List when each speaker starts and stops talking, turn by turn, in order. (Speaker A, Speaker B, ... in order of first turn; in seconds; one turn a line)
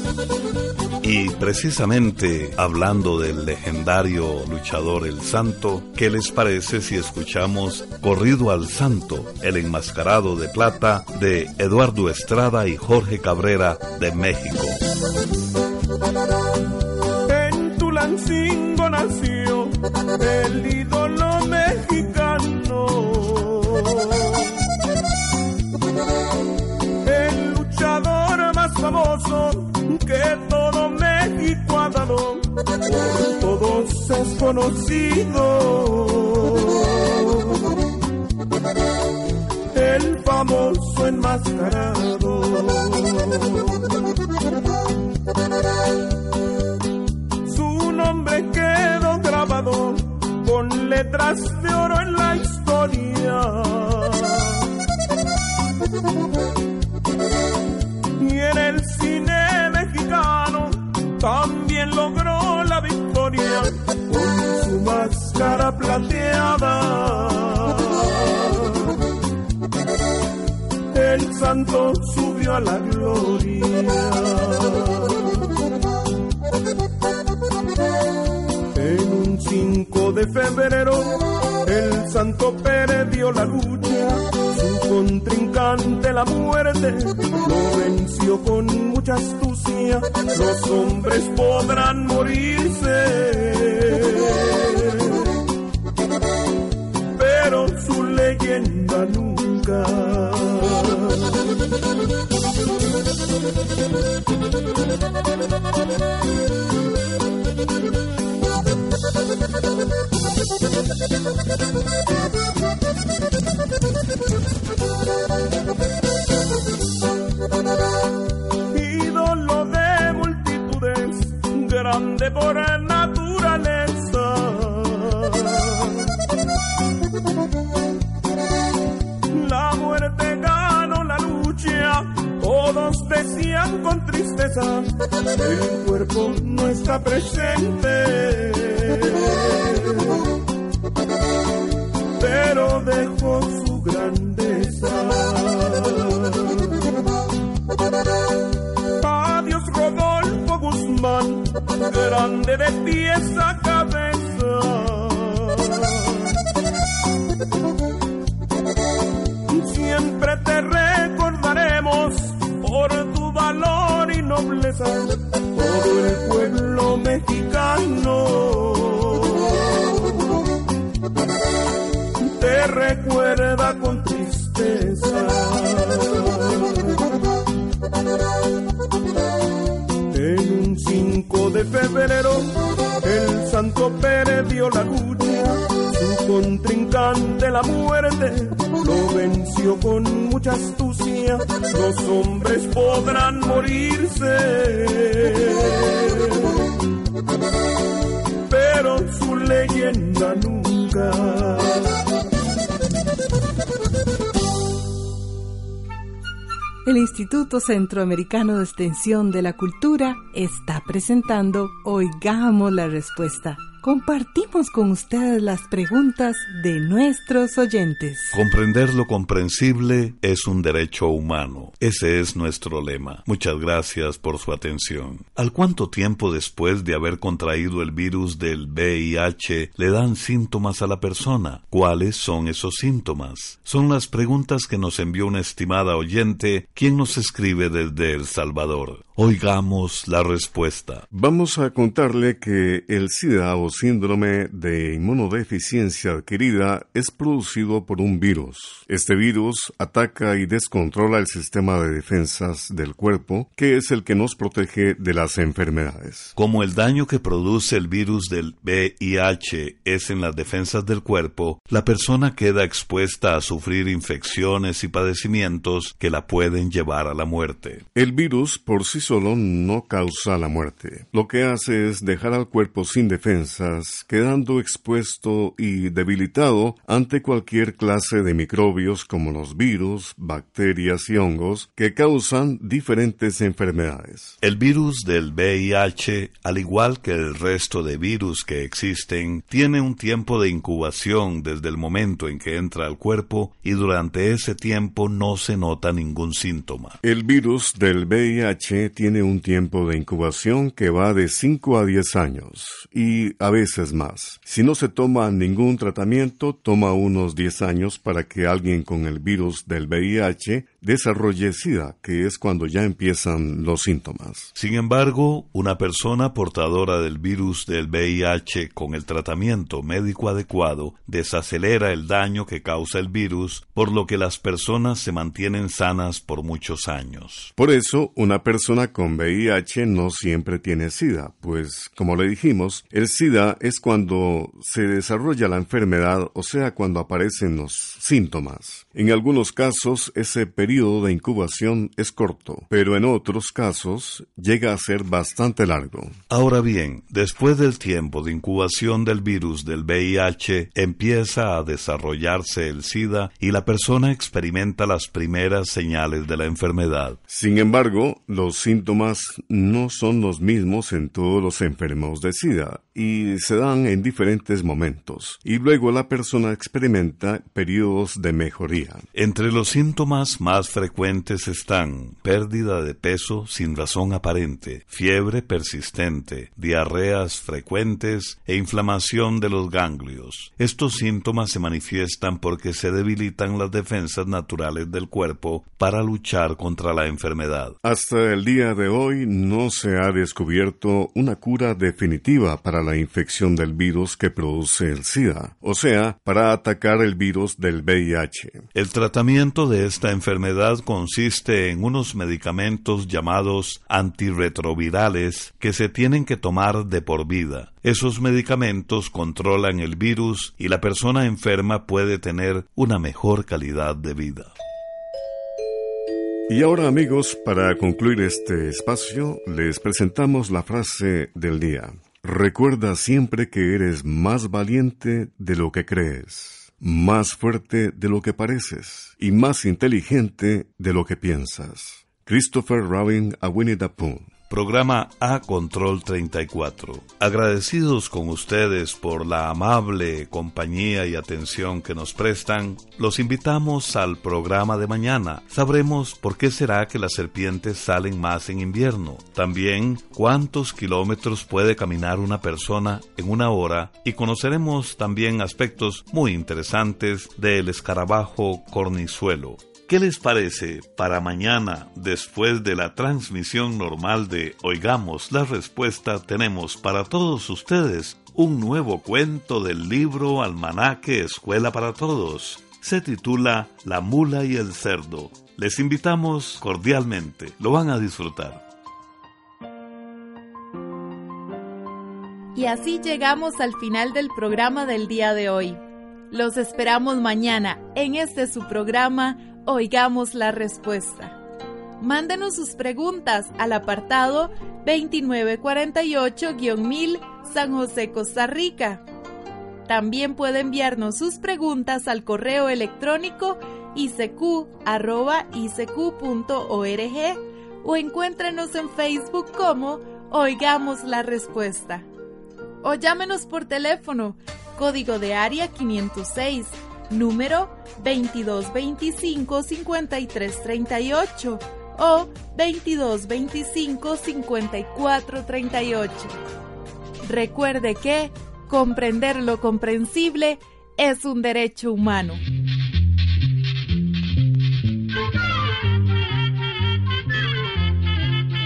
Speaker A: 1.0-14.8
Speaker B: 17.3-24.6
Speaker B: 27.0-37.7
Speaker B: 39.7-43.9
Speaker B: 47.4-54.7
Speaker B: 58.2-69.0
Speaker B: 70.9-75.5
Speaker B: 78.7-95.3
Speaker B: 97.1-101.4
Speaker B: 118.7-126.1
Speaker B: 129.3-140.2
Speaker B: 142.2-146.7
Speaker B: 149.0-156.3
Speaker B: 159.5-170.2
Speaker B: 172.2-176.9
Speaker B: 180.1-196.7
Speaker B: 198.5-201.9
Speaker C: 206.8-218.4
Speaker A: 218.3-241.0
Speaker D: 241.1-256.3
Speaker A: 256.4-267.8
Speaker D: 267.9-284.4
Speaker A: 284.4-297.0
Speaker D: 297.0-314.5
Speaker A: 314.6-327.5
Speaker D: 327.6-346.2
Speaker A: 346.3-357.2
Speaker D: 357.3-369.0
Speaker A: 369.1-387.8
Speaker D: 387.8-398.6
Speaker A: 398.7-414.5
Speaker D: 416.5-434.3
Speaker A: 434.5-478.6
Speaker E: 482.6-491.4
Speaker E: 492.0-499.0
Speaker E: 499.9-512.1
Speaker E: 512.8-526.3
Speaker E: 527.2-532.4